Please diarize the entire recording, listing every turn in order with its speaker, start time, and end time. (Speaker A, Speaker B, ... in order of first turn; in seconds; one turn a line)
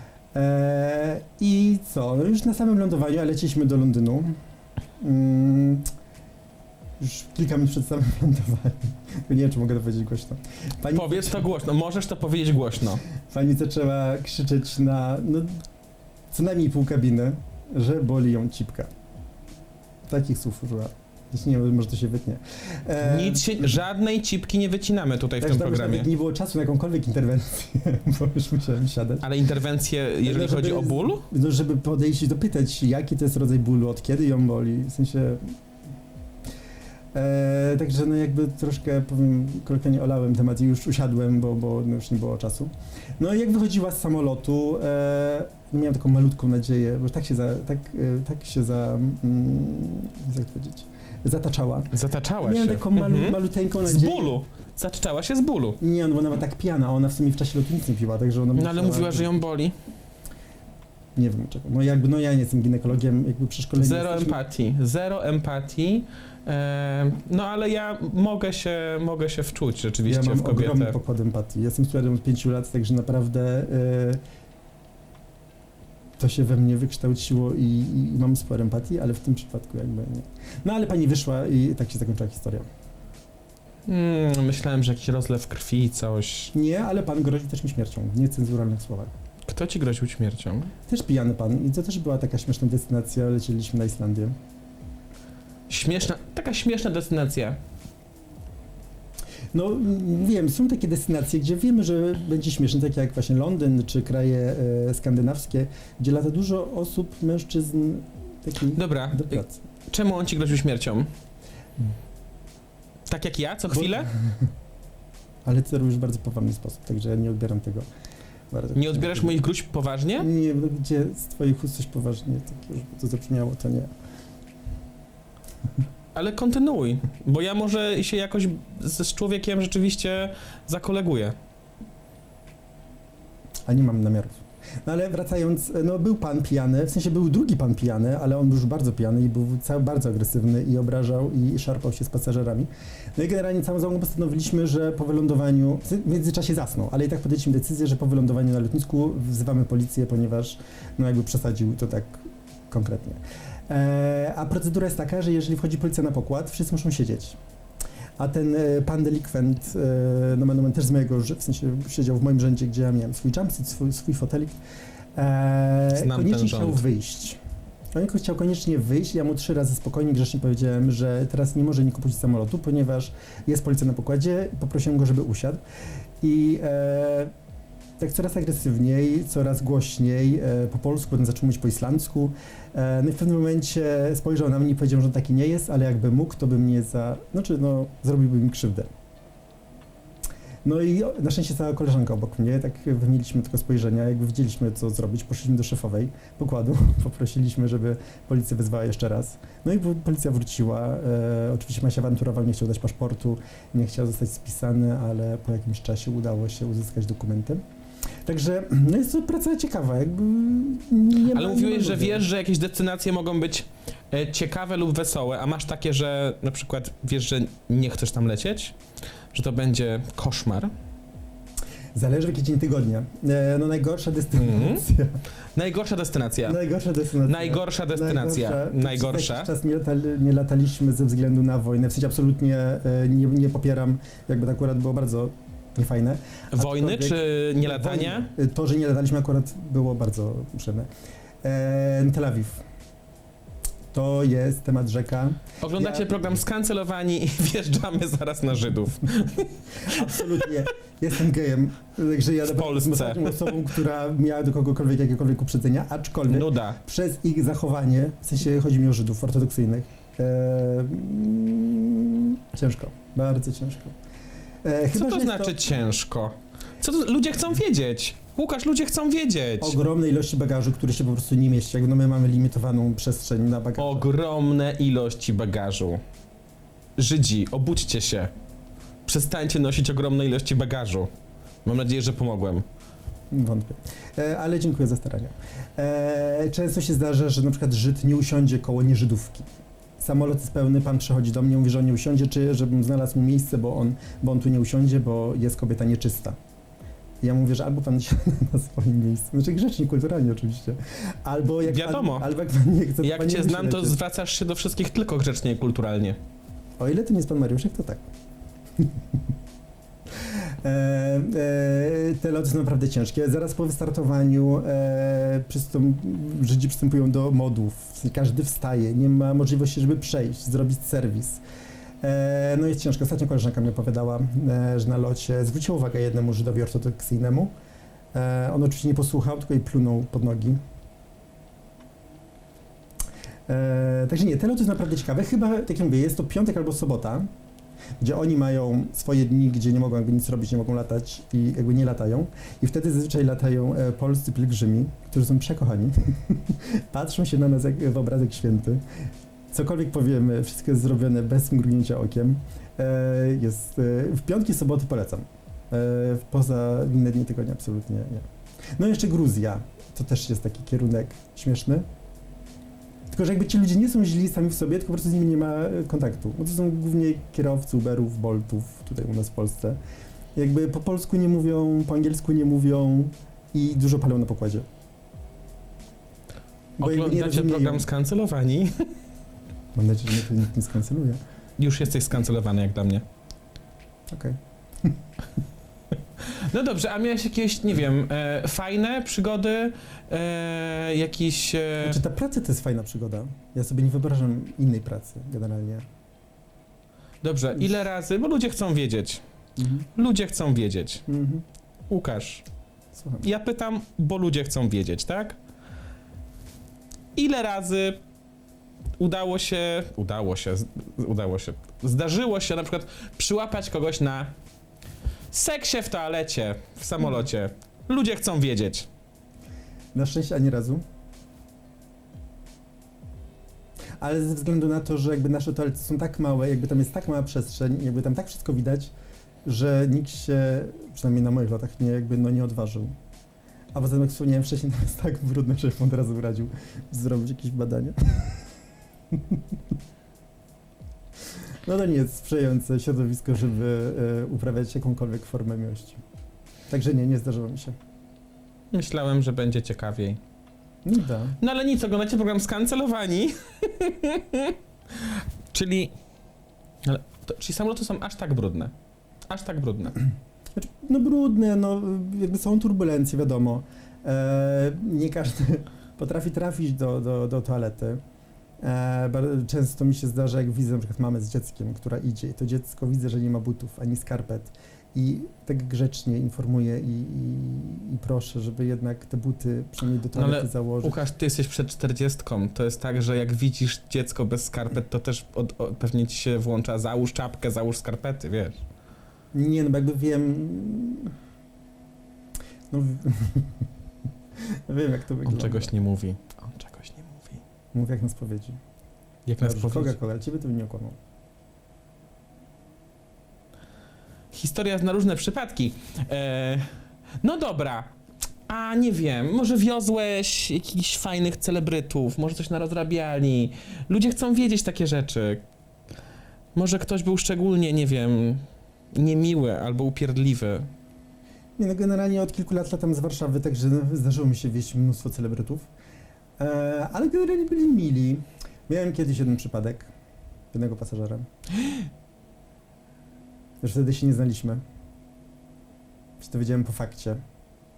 Speaker A: 0.3-4.4
Speaker A: 5.0-5.9
Speaker A: 7.0-11.4
Speaker B: 10.9-13.0
Speaker A: 13.2-15.7
Speaker A: 16.3-18.9
Speaker A: 20.1-23.8
Speaker B: 23.0-26.1
Speaker A: 25.4-29.3
Speaker B: 29.2-31.3
Speaker A: 30.2-35.5
Speaker A: 37.1-54.4
Speaker B: 51.9-55.8
Speaker A: 55.8-59.4
Speaker B: 58.5-59.8
Speaker A: 61.1-64.4
Speaker B: 63.8-71.0
Speaker A: 70.1-74.2
Speaker A: 76.2-82.7
Speaker B: 83.9-86.5
Speaker A: 86.5-89.1
Speaker B: 89.5-90.7
Speaker A: 90.9-94.4
Speaker B: 95.7-97.6
Speaker A: 99.5-109.6
Speaker B: 108.7-111.1
Speaker B: 113.1-114.1
Speaker A: 113.7-114.5
Speaker A: 115.5-117.9
Speaker A: 118.5-119.4
Speaker B: 118.7-120.3
Speaker A: 120.2-123.9
Speaker B: 126.2-131.4
Speaker A: 133.7-157.4
Speaker A: 158.2-164.6
Speaker A: 165.2-167.4
Speaker B: 165.9-166.8
Speaker A: 167.9-175.6
Speaker A: 176.2-177.3
Speaker A: 178.0-188.9
Speaker A: 190.7-207.6
Speaker A: 208.3-212.2
Speaker B: 211.3-218.8
Speaker B: 219.3-220.7
Speaker A: 221.9-225.2
Speaker B: 224.3-224.8
Speaker B: 225.6-226.6
Speaker A: 226.5-240.9
Speaker B: 227.2-229.5
Speaker B: 236.5-238.3
Speaker A: 241.4-242.6
Speaker A: 243.9-246.3
Speaker B: 245.6-250.7
Speaker A: 249.8-264.0
Speaker B: 252.5-253.6
Speaker B: 256.3-256.8
Speaker A: 264.6-265.6
Speaker B: 264.9-269.8
Speaker A: 269.6-274.1
Speaker B: 273.8-276.0
Speaker B: 277.0-278.3
Speaker B: 279.1-281.1
Speaker B: 281.6-282.6
Speaker A: 283.3-296.4
Speaker A: 297.2-304.0
Speaker B: 301.6-302.3
Speaker B: 303.0-306.2
Speaker A: 306.8-308.1
Speaker A: 310.1-321.4
Speaker A: 322.0-327.5
Speaker A: 328.1-330.6
Speaker A: 333.5-337.3
Speaker A: 338.0-348.8
Speaker A: 349.5-361.9
Speaker A: 363.1-369.8
Speaker A: 370.4-374.7
Speaker A: 376.8-377.9
Speaker B: 376.8-378.9
Speaker A: 379.8-381.2
Speaker B: 381.6-383.0
Speaker A: 384.1-385.0
Speaker B: 386.2-392.0
Speaker A: 391.8-395.9
Speaker B: 397.2-399.2
Speaker A: 399.6-399.9
Speaker B: 399.9-401.1
Speaker A: 401.1-401.4
Speaker B: 401.9-402.4
Speaker A: 402.9-403.2
Speaker B: 403.2-405.4
Speaker B: 407.2-408.0
Speaker B: 409.0-414.3
Speaker B: 415.3-418.9
Speaker A: 419.9-420.8
Speaker A: 424.0-428.9
Speaker A: 429.4-433.0
Speaker A: 433.7-438.5
Speaker A: 439.1-439.4
Speaker A: 441.6-446.0
Speaker A: 446.7-447.8
Speaker B: 448.7-450.2
Speaker A: 450.8-451.4
Speaker B: 451.4-455.9
Speaker B: 456.8-458.7
Speaker B: 459.3-460.0
Speaker A: 460.6-468.0
Speaker A: 468.6-481.0
Speaker B: 480.1-488.6
Speaker A: 489.3-491.1
Speaker A: 492.7-493.7
Speaker A: 494.4-495.7
Speaker B: 495.2-497.4
Speaker A: 497.7-498.6
Speaker B: 499.3-500.0
Speaker A: 499.4-501.0
Speaker B: 504.3-507.9
Speaker B: 508.5-515.4
Speaker B: 516.5-520.7
Speaker A: 521.6-525.7
Speaker A: 526.4-529.9
Speaker A: 530.5-531.3
Speaker A: 533.6-534.6
Speaker A: 536.2-537.2